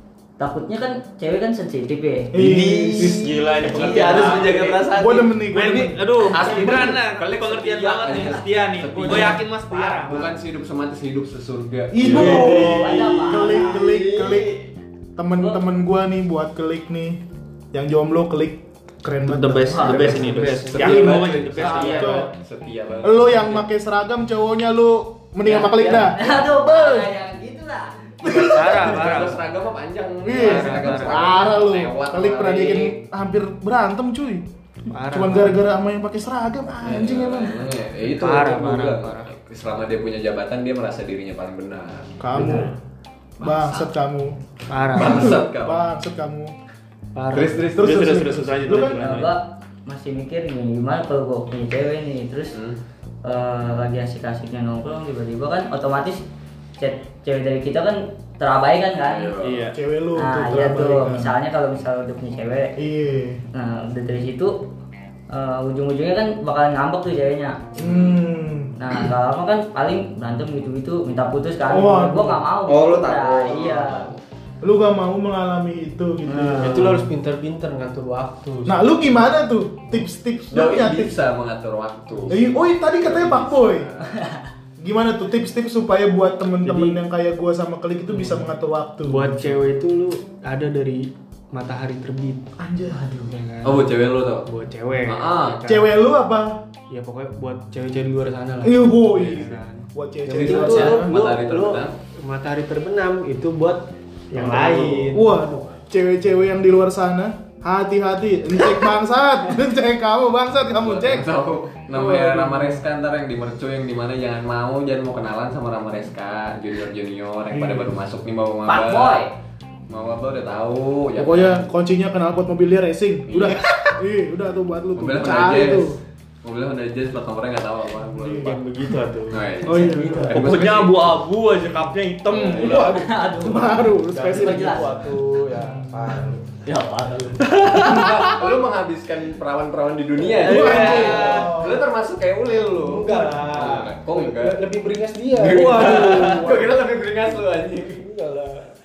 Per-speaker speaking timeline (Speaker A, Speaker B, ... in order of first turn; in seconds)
Speaker A: 0.4-2.3, 3.6-4.7, 12.1-13.8, 19.7-20.2, 25.4-28.1, 49.0-52.6, 53.2-56.2, 56.8-59.4, 60.1-62.8, 63.5-64.5, 65.3-67.6, 68.8-74.1, 76.2-77.0, 84.1-84.4, 93.0-93.2, 118.7-119.3, 132.6-134.9, 136.6-137.5
Speaker B: 2.3-4.1, 4.9-6.9, 11.9-14.6, 15.2-17.2, 17.7-22.3, 23.0-27.1, 28.2-29.0, 30.2-34.4, 35.0-37.6, 42.2-42.8, 43.4-46.5, 47.8-49.0, 59.7-61.3, 62.8-63.4, 67.8-68.7, 71.7-72.4, 74.6-77.0, 78.7-81.1, 82.3-83.9, 84.8-89.5, 92.6-93.2, 95.7-96.6, 98.6-101.1, 105.1-111.3, 117.5-117.9, 121.2-126.0, 128.2-128.6, 129.6-130.4, 132.4-134.9, 135.6-136.4, 137.7-138.2, 140.4-141.8, 145.5-146.6
Speaker C: 2.4-4.9, 5.5-10.2, 12.1-12.6, 19.2-22.3, 28.3-29.4, 30.4-31.2, 47.8-49.3, 59.4-59.8, 130.3-133.0, 137.4-138.5, 140.4-141.6, 145.9-146.4
Speaker D: 2.4-5.3, 6.3-9.4, 10.1-14.7, 20.1-23.7, 28.2-33.0, 36.8-42.6, 43.4-43.9, 44.9-45.8, 47.3-48.1, 52.5-52.8, 59.0-59.7, 67.7-68.2, 72.7-74.2, 80.5-84.2, 93.6-94.5, 95.0-95.6, 100.3-102.0, 104.3-105.1, 110.8-119.2, 119.9-121.7, 123.3-123.9, 124.9-128.6, 129.3-131.1, 137.9-144.6, 145.3-148.1
Speaker E: 9.0-10.3, 20.2-20.8, 34.9-35.6, 38.0-39.3, 42.3-42.7, 44.7-45.4, 47.1-47.7, 76.5-79.1, 86.6-87.0, 88.1-88.5, 89.0-92.5, 93.1-96.0, 96.9-105.5, 111.9-112.8, 128.4-130.4, 134.1-136.4, 142.8-146.5, 147.9-148.7